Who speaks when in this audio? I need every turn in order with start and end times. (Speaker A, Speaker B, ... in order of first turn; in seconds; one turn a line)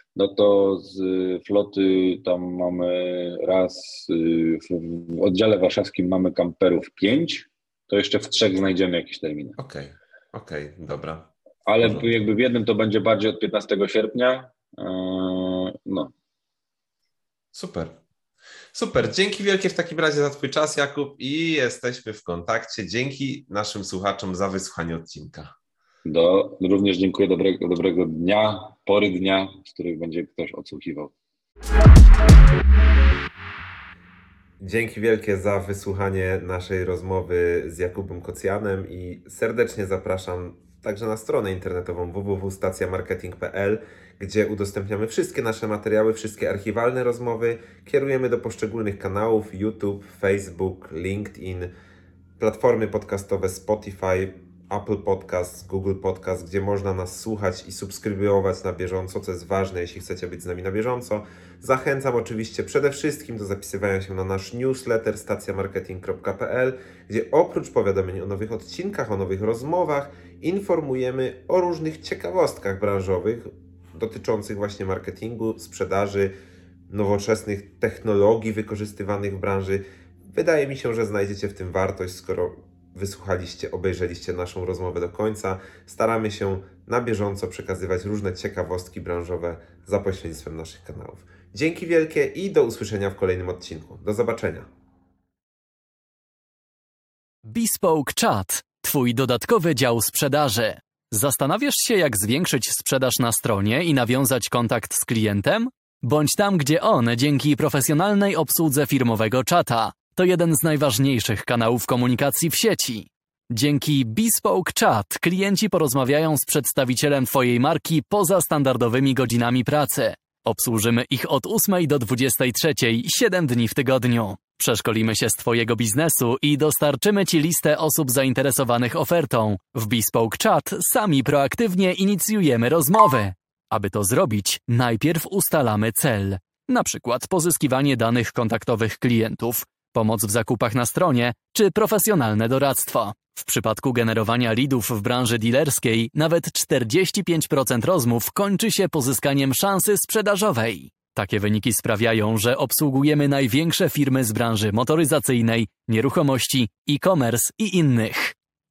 Speaker A: 0.1-9.6
Speaker B: 9.6-12.1
Speaker A: 11.7-16.1
Speaker B: 17.5-17.9
Speaker B: 18.7-25.5
Speaker A: 26.0-31.1
Speaker B: 34.6-51.7
Speaker B: 52.4-76.3
Speaker B: 76.9-94.7
Speaker C: 97.4-158.3